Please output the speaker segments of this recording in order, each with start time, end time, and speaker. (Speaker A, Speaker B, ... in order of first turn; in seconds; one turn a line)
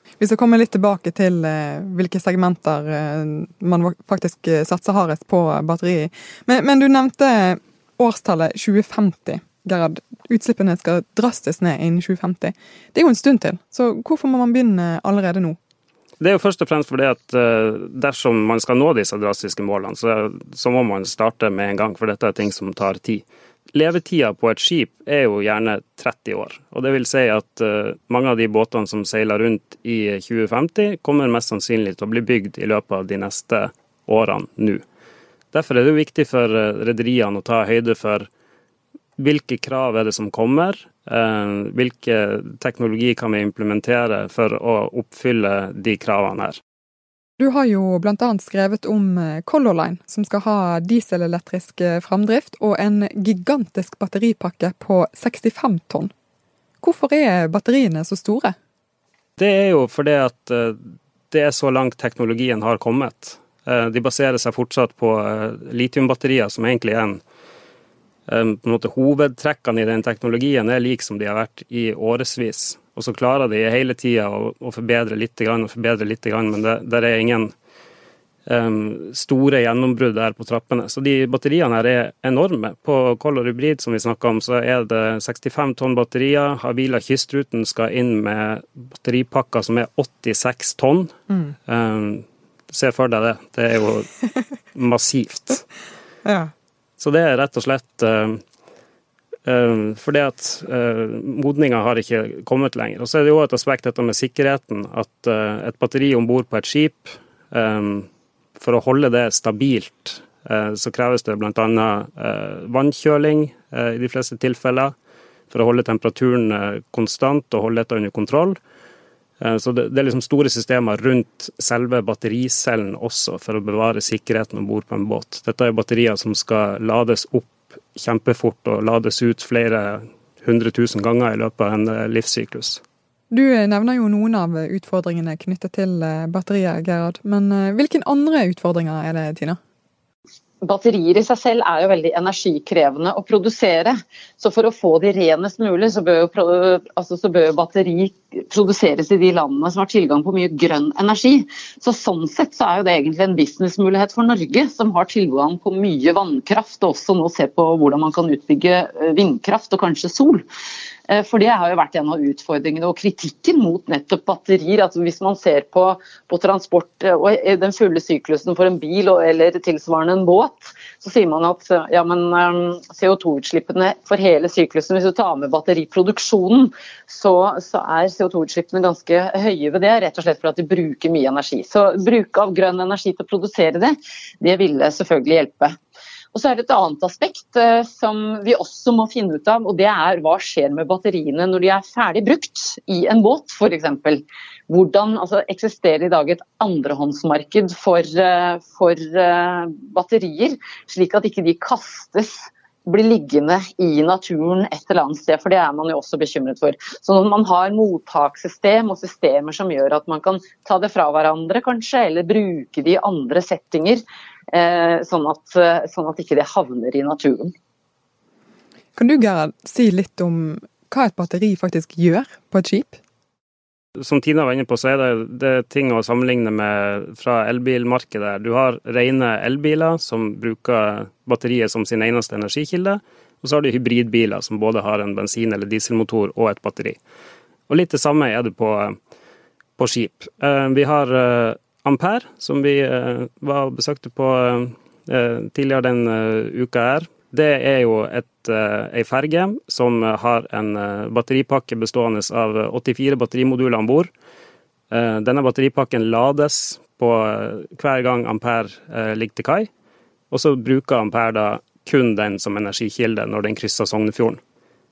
Speaker A: 0.2-15.6
Speaker B: 16.2-34.8
Speaker B: 35.5-38.3
Speaker B: 39.2-46.6
Speaker A: 47.4-56.1
Speaker A: 56.8-58.5
Speaker B: 59.4-67.2
Speaker B: 68.3-77.5
Speaker B: 78.5-94.1
Speaker B: 94.7-95.6
Speaker A: 96.2-96.5
Speaker B: 97.0-98.4
Speaker B: 99.5-114.9
Speaker B: 115.5-118.6
Speaker B: 119.4-132.8
Speaker A: 133.3-139.6
Speaker C: 140.6-160.4
Speaker C: 161.1-185.8
Speaker C: 186.3-217.5
Speaker A: 218.9-223.0
Speaker B: 224.0-237.0
Speaker B: 237.7-238.9
Speaker B: 239.8-254.1
Speaker B: 254.9-259.7
Speaker B: 260.3-264.4